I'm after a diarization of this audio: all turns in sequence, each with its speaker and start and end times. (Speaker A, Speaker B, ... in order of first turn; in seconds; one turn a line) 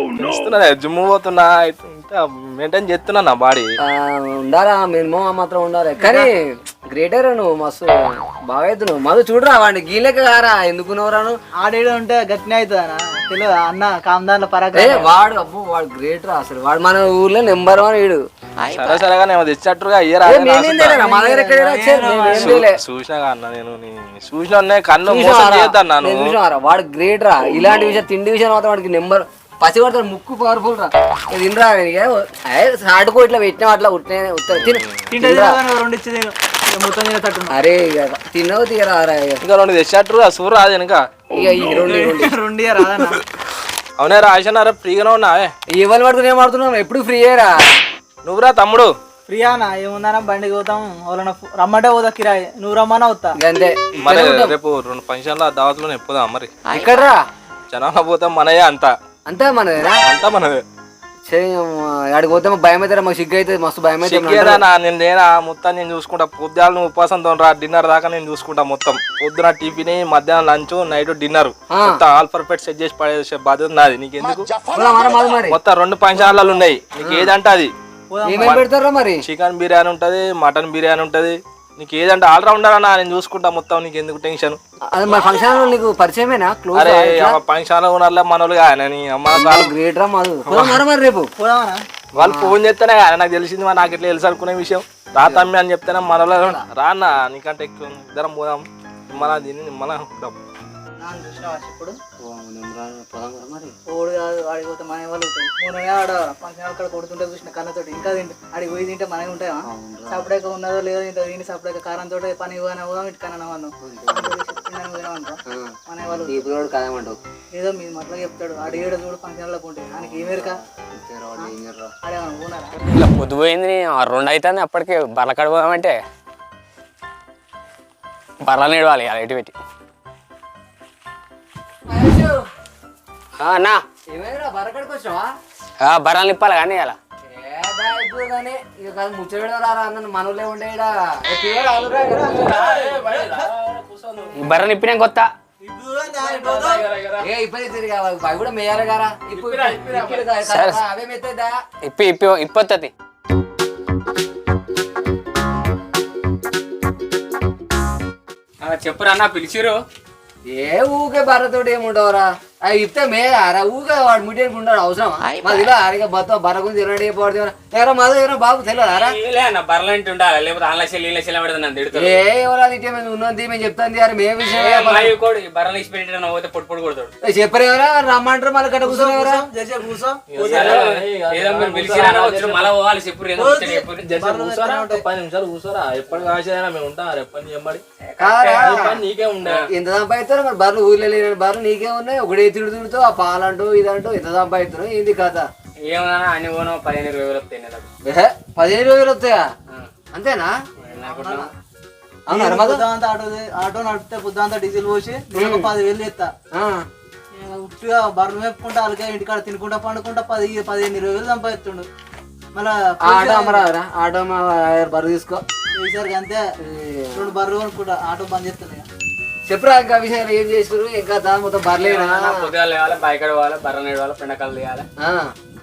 Speaker A: 0.1-3.7
Speaker B: 3.8-11.4
Speaker C: 6.0-6.3
Speaker C: 11.6-15.2
Speaker B: 14.7-18.2
Speaker A: 18.6-21.1
Speaker B: 20.2-22.8
Speaker C: 21.0-22.6
Speaker A: 22.3-26.4
Speaker B: 25.1-35.6
Speaker A: 34.6-35.0
Speaker C: 35.1-37.5
Speaker B: 37.5-39.4
Speaker A: 39.4-41.0
Speaker B: 41.3-42.4
Speaker C: 41.9-43.2
Speaker A: 44.0-45.5
Speaker B: 45.7-47.6
Speaker A: 48.2-48.9
Speaker C: 49.3-53.3
Speaker B: 53.4-54.6
Speaker A: 54.0-56.5
Speaker B: 56.7-57.2
Speaker A: 57.7-58.9
Speaker B: 59.3-60.0
Speaker A: 60.0-60.6
Speaker B: 61.3-64.7
Speaker A: 64.0-74.7
Speaker B: 71.7-72.0
Speaker B: 74.7-75.6
Speaker A: 75.5-77.7
Speaker B: 77.0-77.3
Speaker C: 78.1-78.6
Speaker B: 78.2-79.2
Speaker A: 78.4-78.7
Speaker A: 79.2-84.6
Speaker B: 84.9-87.4
Speaker A: 86.7-89.7
Speaker B: 89.3-91.3
Speaker A: 90.5-90.8
Speaker C: 91.4-91.8
Speaker A: 92.2-100.4
Speaker B: 92.2-92.5
Speaker B: 95.2-95.5
Speaker C: 96.4-96.6
Speaker C: 101.0-102.0
Speaker B: 102.2-103.8
Speaker C: 103.9-116.5
Speaker B: 109.7-110.3
Speaker B: 113.8-114.3
Speaker B: 115.5-117.2
Speaker C: 117.5-120.6
Speaker B: 120.0-121.9
Speaker C: 122.0-122.7
Speaker D: 122.8-126.0
Speaker D: 128.4-129.6
Speaker B: 131.8-132.5
Speaker D: 133.4-133.8
Speaker B: 134.1-135.3
Speaker D: 135.8-137.0
Speaker B: 137.3-142.6
Speaker C: 141.9-143.5
Speaker A: 142.2-144.5
Speaker D: 144.3-145.3
Speaker C: 145.6-146.9
Speaker A: 146.1-147.3
Speaker B: 147.2-151.6
Speaker A: 149.3-150.3
Speaker D: 150.5-150.8
Speaker D: 151.8-152.9
Speaker D: 158.6-159.8
Speaker B: 160.4-169.2
Speaker D: 168.9-172.2
Speaker B: 171.9-175.2
Speaker D: 174.5-177.1
Speaker B: 177.2-179.4
Speaker C: 178.8-180.8
Speaker A: 180.3-182.8
Speaker D: 180.5-184.1
Speaker C: 183.4-185.0
Speaker A: 184.0-187.8
Speaker D: 188.0-188.8
Speaker B: 188.2-189.0
Speaker A: 188.5-189.7
Speaker B: 189.7-195.5
Speaker D: 195.8-197.9
Speaker B: 198.1-199.5
Speaker D: 199.7-199.9
Speaker B: 200.1-200.5
Speaker C: 200.8-201.5
Speaker D: 200.8-201.5
Speaker B: 202.3-202.9
Speaker C: 202.3-206.3
Speaker B: 205.3-205.7
Speaker B: 206.6-206.9
Speaker C: 207.3-211.9
Speaker C: 212.5-213.7
Speaker B: 213.1-215.4
Speaker C: 215.8-216.4
Speaker B: 216.6-217.3
Speaker C: 217.1-218.9
Speaker B: 219.5-222.5
Speaker D: 221.8-224.9
Speaker B: 225.0-225.3